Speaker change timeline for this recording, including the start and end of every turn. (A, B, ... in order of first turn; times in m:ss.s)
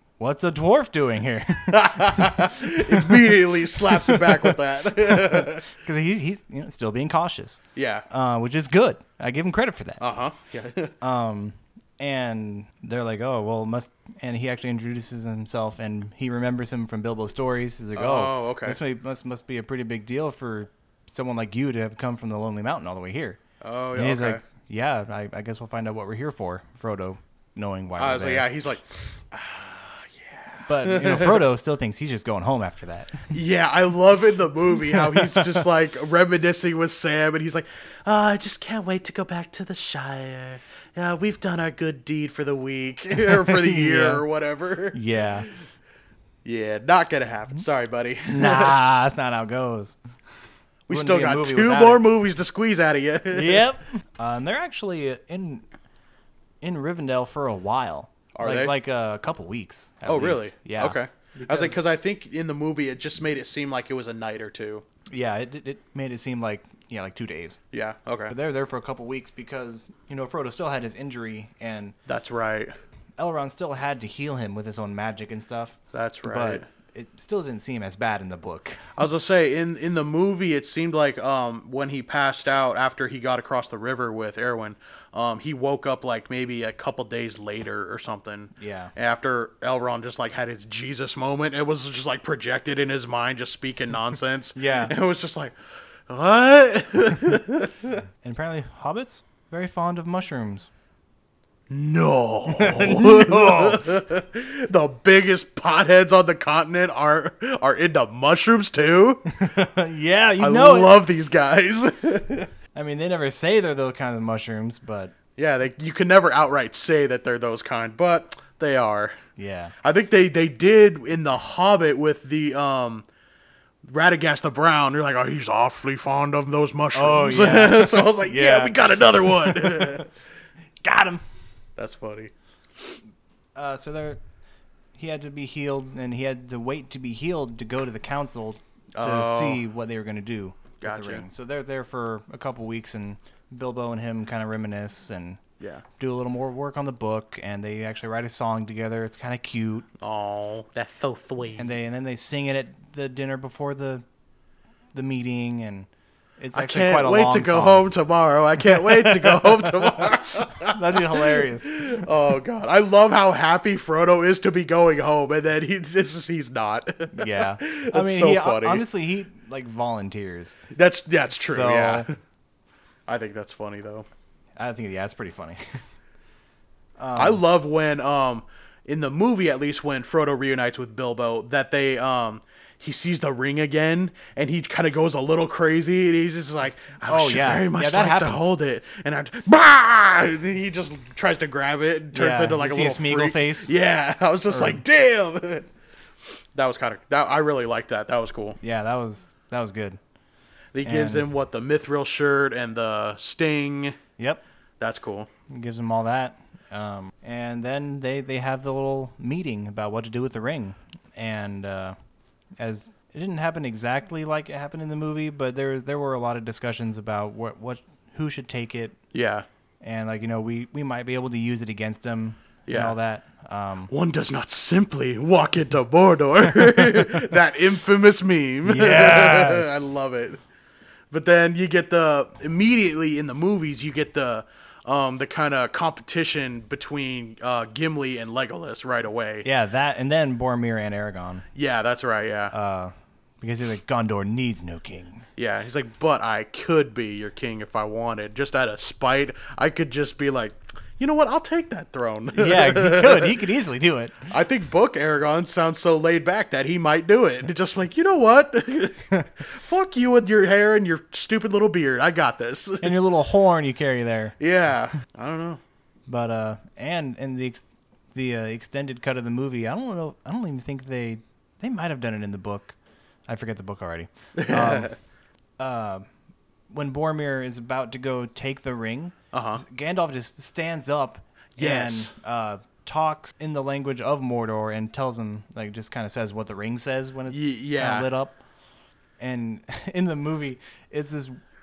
0:00.2-0:10.0 A
0:01.7-0:05.7 B
0:07.7-0:08.0 B
0:10.0-0:11.0 B
0:11.0-0:23.4 A
0:18.0-0:18.8 B
0:23.6-0:24.4 B
0:24.0-0:28.5 A
0:28.0-0:31.4 B
0:30.6-0:33.3 A
0:33.3-0:45.0 B
0:35.1-0:35.4 A
0:43.1-0:44.2 A
0:44.9-0:45.5 A
0:46.4-0:48.8 B
0:48.3-0:50.0 A
0:50.9-0:53.7 B
0:50.9-0:52.0 A
0:53.3-0:55.6 A
0:56.6-1:01.8 A
0:58.4-0:58.7 B
1:00.0-1:04.8 B
1:05.1-1:07.6 A
1:07.7-1:08.3 B
1:08.3-1:12.0 A
1:12.1-1:12.7 B
1:13.2-1:19.0 A
1:15.9-1:16.7 B
1:19.0-1:35.6 B
1:28.6-1:28.9 A
1:34.6-1:34.9 A
1:36.1-1:38.0 B
1:38.2-1:40.7 A
1:41.7-1:49.3 B
1:42.5-1:43.8 A
1:49.4-1:51.0 A
1:50.4-1:52.5 B
1:52.7-1:55.1 A
1:55.4-1:59.2 B
1:59.4-1:59.7 A
1:59.8-2:03.0 B
2:03.8-2:10.0 B
2:06.9-2:10.1 A
2:10.8-2:11.2 A
2:11.8-2:12.3 B
2:13.6-2:14.2 A
2:15.0-2:25.4 A
2:19.0-2:19.6 B
2:20.8-2:21.3 B
2:26.0-2:29.9 A
2:30.0-2:31.7 B
2:31.6-2:34.0 A
2:34.9-2:35.9 A
2:36.4-2:37.9 A
2:36.5-2:48.8 B
2:38.7-2:41.9 A
2:47.1-2:50.6 A
2:50.7-2:52.1 B
2:51.4-2:52.1 A
2:53.1-2:54.0 B
2:54.6-2:55.6 A
2:57.0-2:57.4 A
2:57.2-3:15.7 B
3:07.1-3:08.5 A
3:12.1-3:13.7 A
3:14.5-3:14.8 A
3:16.6-3:18.6 B
3:18.6-3:20.0 A
3:20.7-3:24.0 B
3:20.8-3:21.3 A
3:24.2-3:24.4 A
3:24.8-3:25.3 B
3:25.5-3:32.0 A
3:32.6-3:39.0 A
3:39.1-3:39.4 B
3:39.8-3:43.9 A
3:42.7-3:43.0 B
3:43.9-3:50.4 B
3:48.6-3:49.8 A
3:51.1-3:59.4 B
3:59.4-4:01.4 A
4:01.6-4:02.5 B
4:02.5-4:05.3 A
4:05.4-4:13.4 B
4:12.3-4:14.3 A
4:14.3-4:23.0 B
4:22.8-4:24.4 A
4:24.4-4:25.6 B
4:26.1-4:32.8 A
4:33.3-4:34.9 A
4:34.4-4:35.0 B
4:35.6-4:36.0 A
4:36.7-4:48.4 A
4:39.3-4:39.6 B
4:41.6-4:42.1 B
4:47.3-4:48.1 B
4:49.2-4:51.4 A